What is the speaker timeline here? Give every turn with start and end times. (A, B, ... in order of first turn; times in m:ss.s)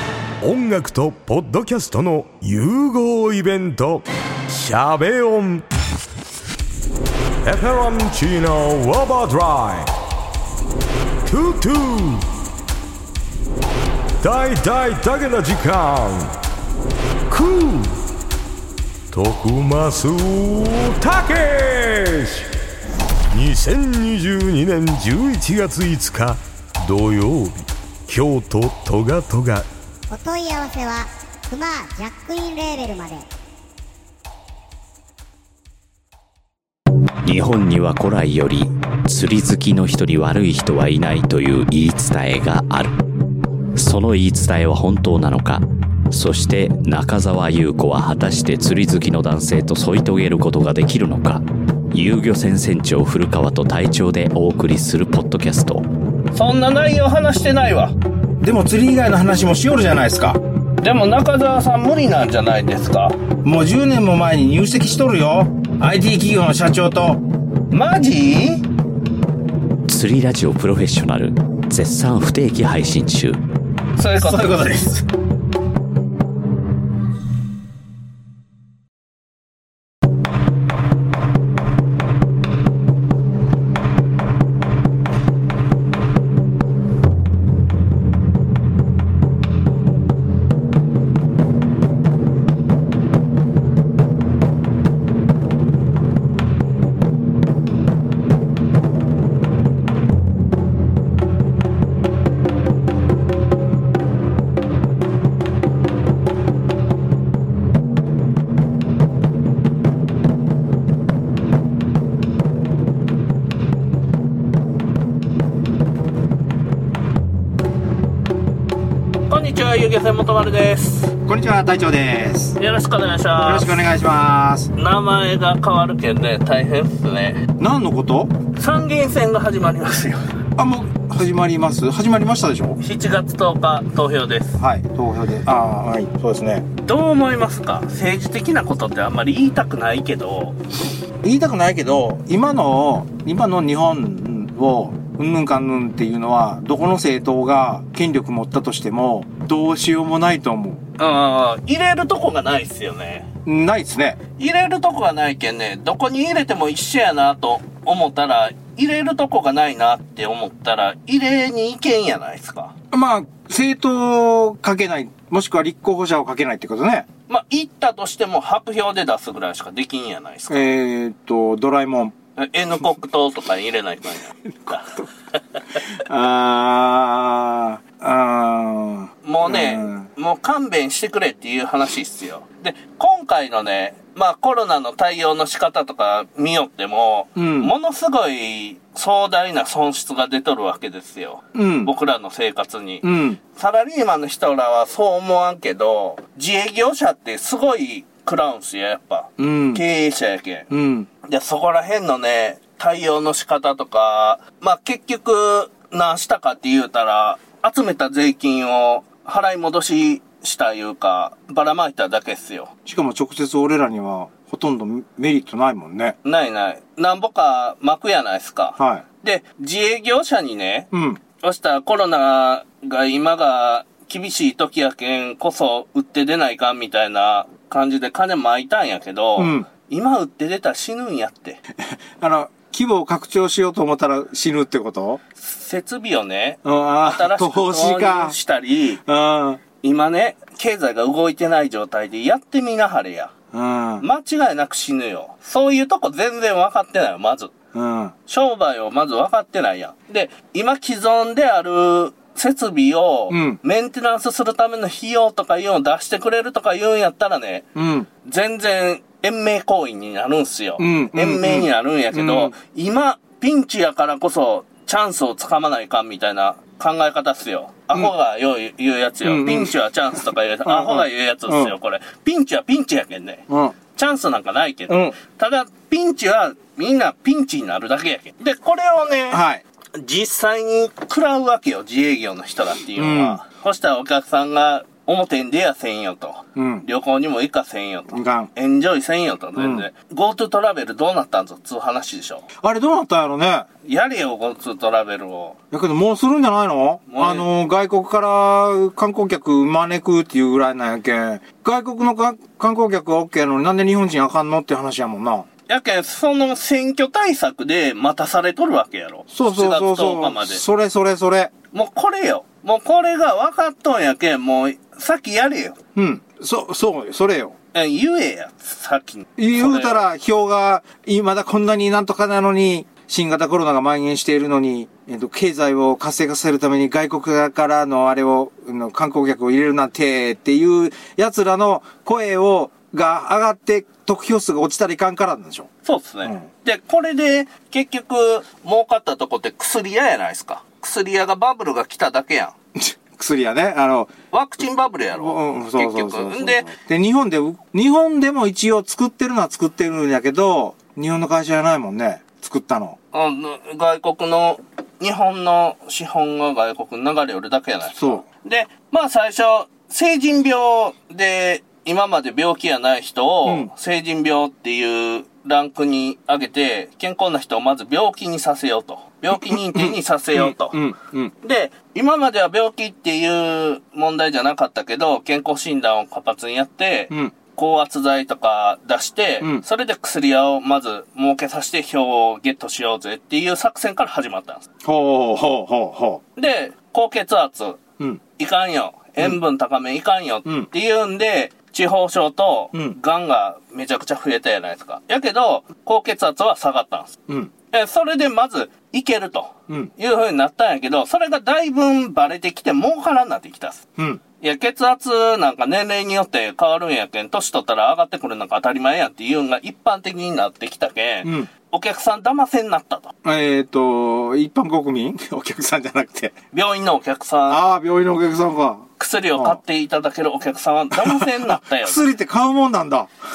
0:00.4-0:05.6 A
0:07.4-0:09.9 A
0:11.2-0:12.2 A
0:14.2-0:16.3 A
0:17.3-0:17.9 A
0:19.1-0:22.5 A
0:23.3-0:29.7 A
0:30.1-0:33.2 B
0:37.2-0:43.0 C
0:43.8-0:55.8 C
0:56.3-0:57.9 D
0:58.4-1:00.4 E
1:00.8-1:03.2 D
1:03.4-1:07.2 E
1:07.7-1:08.6 D
1:09.9-1:13.4 C
1:14.0-1:14.8 D
1:14.2-1:15.0 E
1:59.3-2:01.1 D
2:01.2-2:02.6 E
2:02.6-2:03.8 D
2:03.4-2:04.7 E
2:04.8-2:07.4 D
2:07.6-2:08.3 E
2:08.6-2:10.2 D
2:10.6-2:12.8 E
2:12.8-2:14.6 D
2:14.6-2:16.6 E
2:16.8-2:20.6 D
2:21.2-2:30.8 E
2:31.0-2:33.3 D
2:33.4-2:34.2 E
2:34.4-2:42.7 D
2:42.9-2:47.0 E
2:47.3-2:50.7 D
2:50.5-2:52.1 E
2:52.4-2:55.8 D
2:54.6-2:55.1 E
2:55.9-3:00.1 E
2:59.2-3:20.7 D
3:07.4-3:07.7 E
3:11.5-3:11.9 E
3:13.0-3:13.4 E
3:19.4-3:19.8 E
3:20.7-3:21.1 E
3:21.2-3:32.7 D
3:32.8-3:36.2 E
3:36.2-3:40.9 D
3:38.8-3:39.0 E
3:40.9-3:41.2 E
3:41.4-3:51.6 D
3:49.4-3:49.7 E
3:51.8-3:55.2 E
3:55.4-3:59.0 D
3:56.6-3:58.4 E
3:59.0-3:59.6 E
3:59.8-4:03.3 D
4:03.5-4:04.0 E
4:04.0-4:07.5 D
4:07.7-4:08.1 E
4:08.3-4:17.7 D
4:13.3-4:13.6 E
4:17.7-4:18.1 E
4:18.2-4:39.4 D
4:20.8-4:22.5 E
4:29.2-4:29.8 E
4:30.6-4:31.7 E
4:33.5-4:33.7 E
4:34.9-4:35.2 E
4:39.3-4:39.6 E
4:40.0-4:52.4 D
4:42.9-4:43.4 E
4:46.6-4:46.8 E
4:48.1-4:48.5 E
4:49.6-4:49.9 E
4:52.6-4:53.7 E
4:53.8-4:55.6 D
4:55.7-5:05.5 E
4:57.1-4:57.5 D
5:05.7-5:10.6 D
5:09.3-5:11.5 E
5:11.7-5:15.8 D
5:15.9-5:17.5 E
5:17.7-5:20.0 D
5:19.4-5:35.7 E
5:35.8-5:42.5 D
5:42.8-5:44.1 E
5:44.3-5:46.7 D
5:45.1-5:53.0 E
5:53.1-6:10.8 D
5:57.9-5:58.2 E
6:03.4-6:03.7 E
6:09.3-6:11.3 E
6:11.4-6:24.6 D
6:24.8-6:26.2 E
6:26.4-6:27.8 D
6:28.4-6:37.1 D
6:37.7-6:43.8 D
6:44.4-6:53.1 D
6:51.2-6:51.5 E
6:53.2-6:56.3 E
6:56.5-6:57.6 D
6:57.5-6:59.6 E
6:59.0-7:02.1 D
7:00.9-7:03.1 E